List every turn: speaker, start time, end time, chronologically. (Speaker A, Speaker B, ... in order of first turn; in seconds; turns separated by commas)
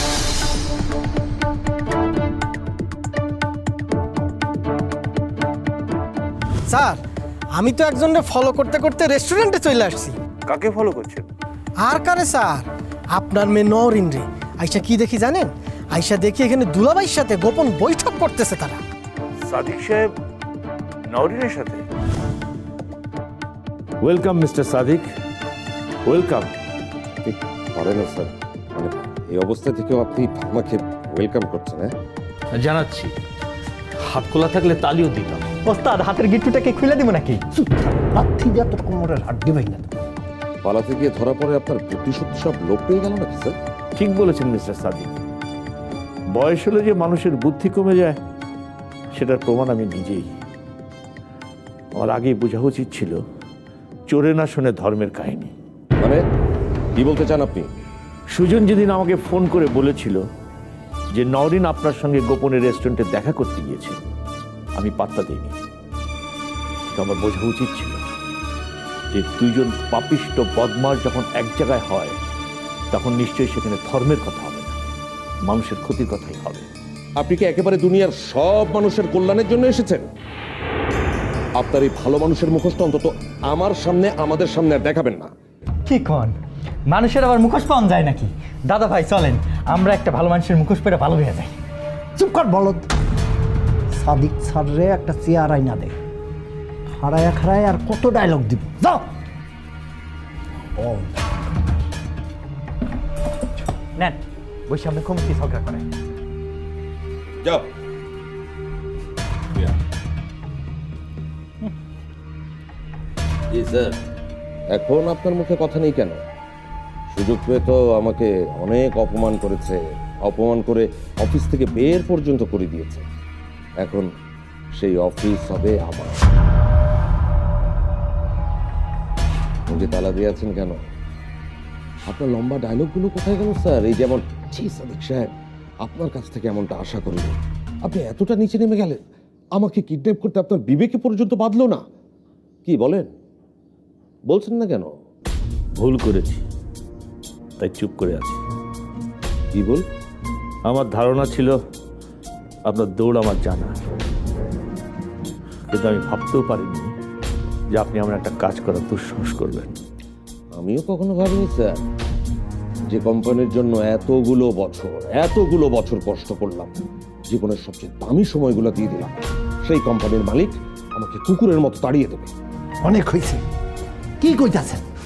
Speaker A: 6.7-10.2, Speaker B: 10.4-11.3, Speaker A: 11.8-18.8, Speaker B: 19.4-20.1, Speaker B: 21.1-21.8, Speaker B: 24.0-25.1, Speaker B: 26.1-26.5, Speaker C: 27.2-31.9, Speaker B: 32.5-33.1, Speaker B: 34.0-35.4, Speaker D: 35.6-37.4, Speaker E: 37.5-39.9, Speaker C: 40.6-43.6, Speaker B: 44.0-45.2, Speaker B: 46.3-48.2, Speaker B: 49.1-50.3, Speaker B: 51.9-53.2, Speaker B: 54.1-55.5, Speaker C: 57.0-57.7, Speaker B: 58.3-60.2, Speaker B: 61.1-64.0, Speaker B: 64.8-65.5, Speaker B: 66.9-68.0, Speaker B: 69.1-72.2, Speaker B: 72.9-74.8, Speaker B: 75.5-76.7, Speaker C: 77.2-80.1, Speaker C: 81.6-85.3, Speaker D: 85.9-86.3, Speaker D: 86.9-91.5, Speaker E: 92.2-92.8, Speaker E: 93.9-96.0, Speaker E: 97.0-99.0, Speaker E: 100.8-101.1, Speaker D: 104.0-105.8, Speaker C: 113.5-113.8, Speaker C: 114.7-116.2, Speaker C: 117.1-123.0, Speaker C: 123.8-124.1, Speaker C: 124.8-126.2, Speaker C: 129.7-130.8, Speaker C: 132.1-135.3, Speaker C: 135.8-137.3, Speaker C: 137.8-139.0, Speaker C: 139.6-141.8, Speaker C: 142.7-143.1, Speaker C: 144.3-144.9, Speaker B: 145.8-146.4, Speaker B: 147.6-148.4, Speaker C: 149.5-149.8, Speaker B: 150.6-151.6, Speaker B: 152.7-153.8, Speaker B: 155.7-156.9, Speaker B: 157.7-159.8, Speaker C: 160.5-161.8, Speaker C: 162.9-166.7, Speaker C: 167.3-172.3, Speaker E: 172.8-173.4, Speaker E: 174.2-174.8